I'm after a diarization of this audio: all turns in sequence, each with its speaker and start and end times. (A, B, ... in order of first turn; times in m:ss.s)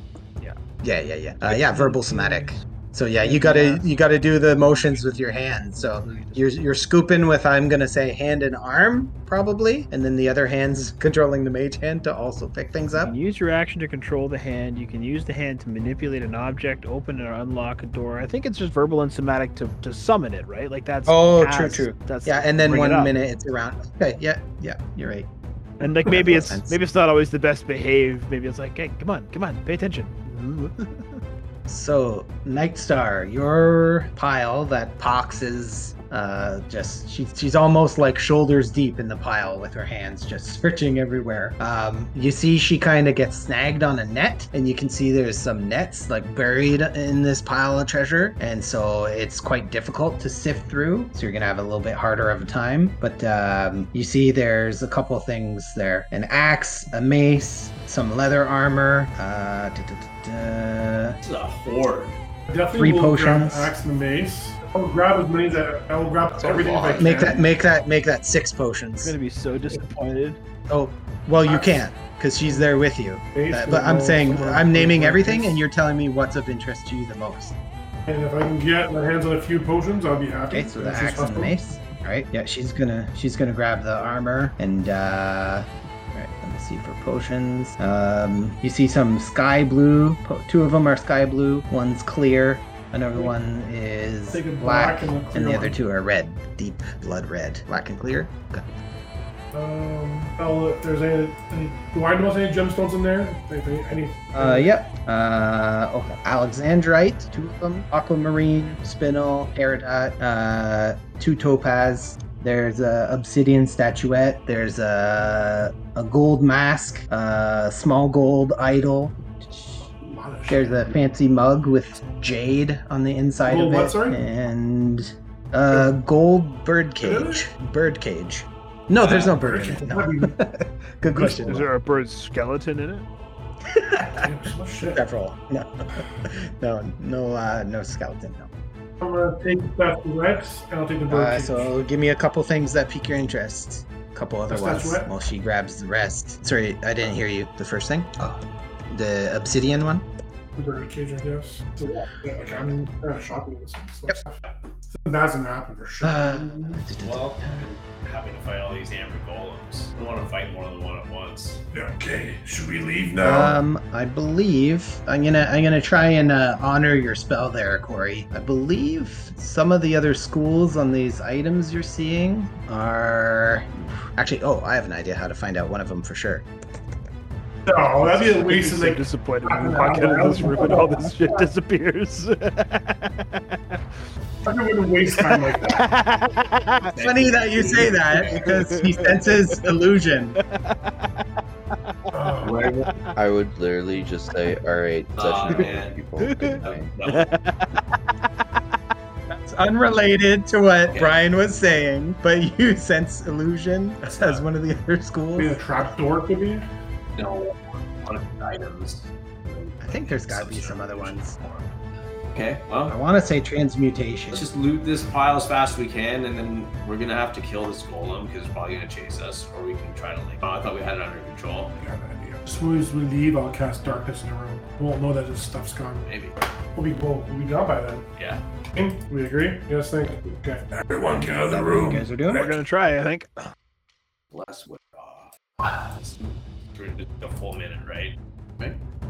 0:00.8-0:13.1 A
0:01.4-0:02.6 B
0:03.2-0:03.9 B
0:04.5-0:06.4 B
0:13.0-0:23.1 B
0:21.0-0:25.3 A
0:25.8-0:31.2 B
0:25.8-0:26.8 A
0:31.7-1:01.2 A
1:01.2-1:02.2 C
1:02.5-1:07.4 D
1:02.7-1:03.7 A
1:06.4-1:07.3 E
1:07.0-1:09.1 A
1:09.0-1:10.4 B
1:10.7-1:17.5 A
1:11.4-1:11.9 D
1:13.3-1:15.6 D
1:18.0-1:21.6 D
1:20.5-1:38.7 A
1:34.3-1:35.8 D
1:39.5-1:44.7 D
1:44.3-1:59.9 A
1:59.8-2:00.9 D
2:00.5-2:11.6 A
2:03.4-2:04.2 D
2:07.0-2:07.4 D
2:09.0-2:10.4 D
2:11.0-2:11.7 D
2:11.4-2:13.0 B
2:13.7-2:14.3 A
2:14.0-2:15.0 D
2:14.9-2:18.5 A
2:19.0-2:21.7 D
2:21.1-2:30.0 A
2:24.5-2:25.1 D
2:30.6-2:36.8 D
2:36.0-2:37.7 A
2:37.0-2:41.6 C
2:41.7-2:43.6 D
2:43.2-2:56.4 A
2:57.6-3:01.4 D
2:58.0-3:03.8 B
3:04.4-3:05.9 D
3:05.1-3:06.9 B
3:06.9-3:08.5 C
3:07.0-3:10.4 A
3:08.4-3:09.6 B
3:10.4-3:12.0 B
3:12.1-3:12.6 D
3:12.4-3:12.9 C
3:12.8-3:13.1 B
3:13.1-3:16.9 E
3:15.2-3:16.0 C
3:16.2-3:18.4 B
3:16.6-3:17.3 C
3:19.3-3:25.6 A
3:20.9-3:21.2 C
3:24.0-3:24.4 C
3:25.4-3:26.6 D
3:27.2-3:31.7 C
3:29.8-3:31.4 A
3:32.3-3:33.0 C
3:32.9-3:34.4 A
3:34.3-3:41.8 C
3:41.8-3:46.0 D
3:46.0-3:46.4 C
3:46.7-3:48.1 D
3:48.2-3:48.4 C
3:48.7-3:52.1 D
3:51.5-3:52.5 A
3:52.3-3:53.3 B
3:54.3-3:58.8 C